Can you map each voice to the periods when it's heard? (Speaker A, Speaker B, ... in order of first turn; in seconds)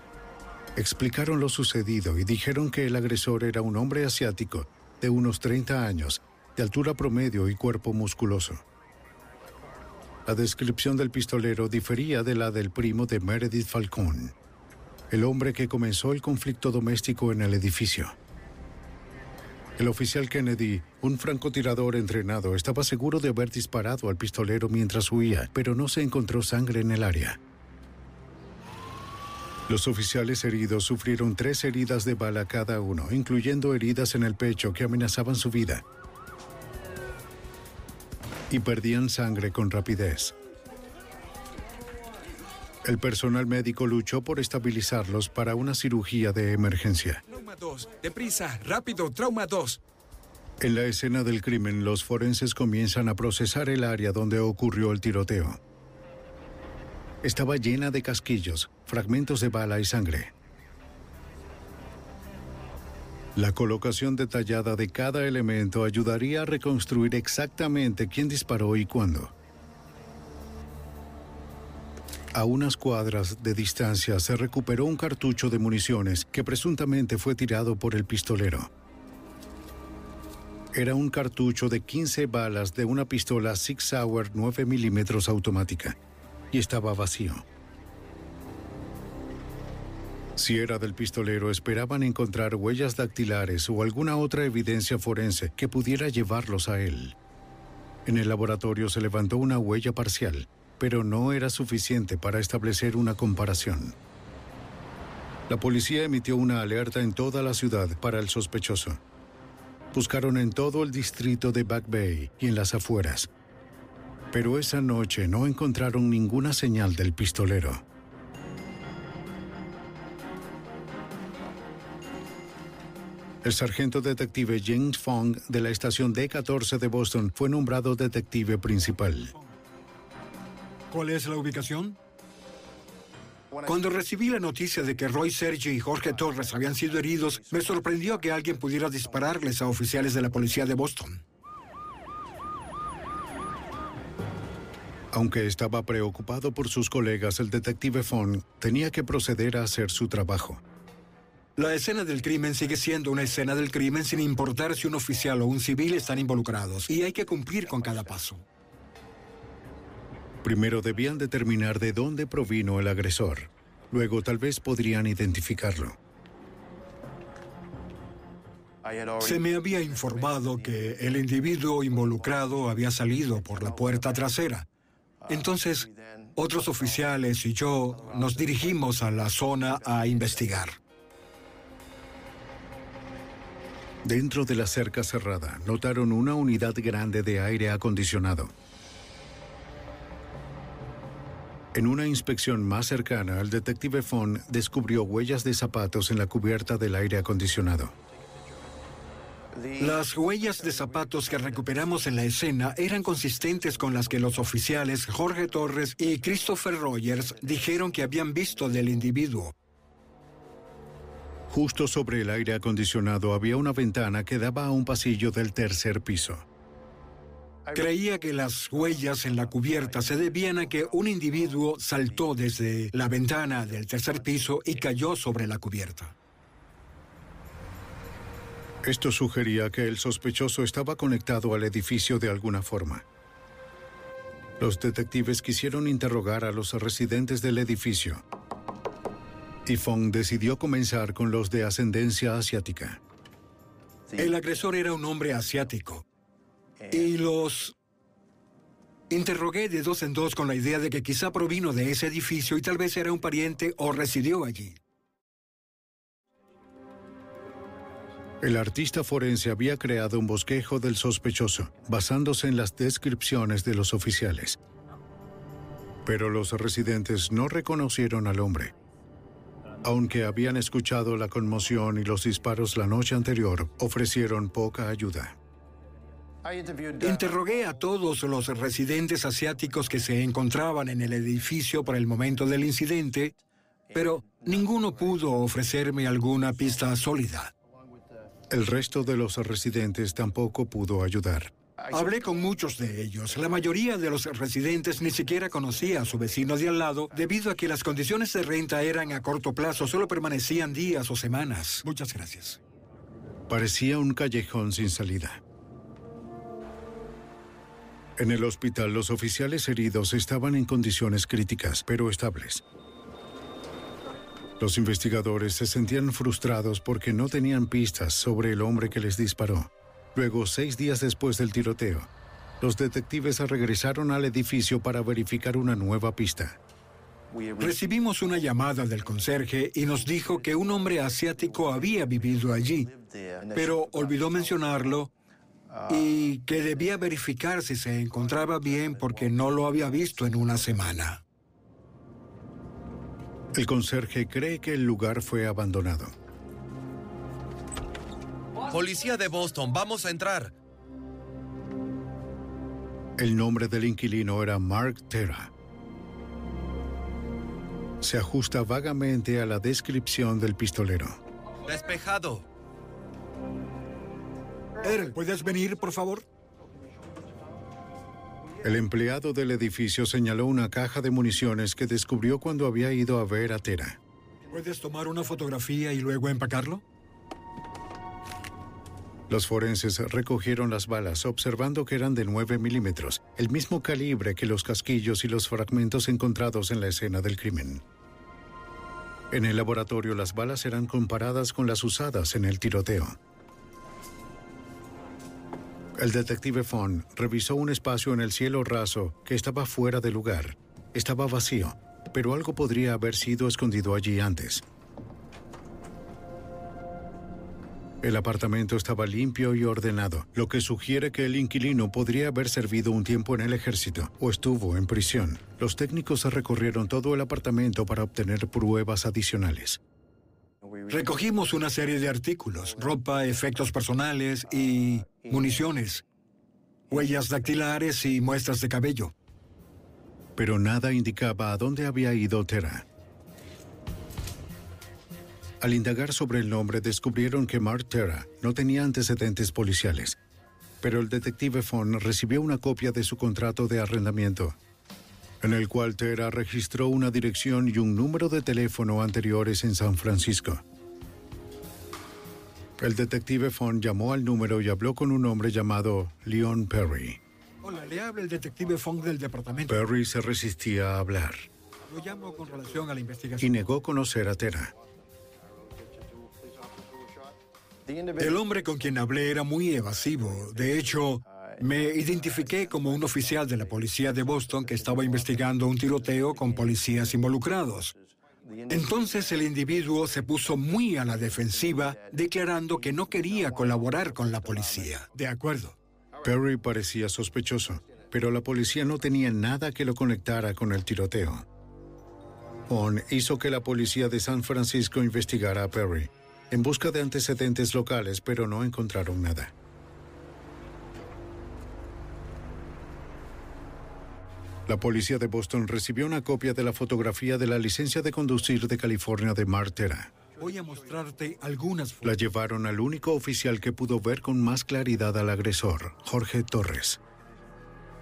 Speaker A: 0.8-8.6, 10.2-14.3, 15.1-18.1, 19.8-27.4, 29.7-35.8, 38.5-40.3, 42.8-47.2, 50.6-55.6, 57.2-60.3, 63.3-69.3, 72.3-78.7, 80.7-86.0, 86.5-87.4, 90.4-97.1, 98.0-103.9, 105.5-109.0, 109.9-113.3, 114.3-117.8, 123.4-129.3, 145.1-150.6, 160.4-166.0, 184.0-188.5, 191.7-197.9, 211.5-216.4, 228.8-233.0, 234.6-238.2, 239.6-243.0, 258.4-264.6, 266.0-268.7, 269.8-275.4, 288.5-291.5, 303.5-305.4, 308.2-312.6, 314.6-322.1, 322.6-326.6, 343.5-346.1, 353.2-355.5, 358.0-361.2, 368.6-374.0, 379.3-387.8, 389.3-393.2, 396.0-404.6, 408.0-419.8, 430.4-432.9, 435.6-440.2, 440.8-444.6, 445.4-450.6, 452.8-457.2, 459.7-461.5, 463.4-464.7, 486.2-491.4, 492.7-499.5, 504.7-510.1, 512.0-517.0
Speaker B: 47.3-49.8
Speaker C: 130.9-132.0, 133.6-141.2, 151.6-158.4, 169.2-174.7, 175.3-180.8, 199.8-209.5, 217.7-226.1, 244.2-246.0, 246.9-247.7, 249.1-254.8, 277.0-283.3, 283.9-287.5, 291.9-302.6, 327.6-332.9, 333.5-335.1, 335.9-341.2, 364.8-366.2, 374.5-376.8, 420.9-426.0, 426.9-429.1, 457.6-459.8, 461.9-463.5, 468.2-477.9, 478.7-485.7, 510.4-512.2
Speaker D: 348.7-350.5, 361.7-362.4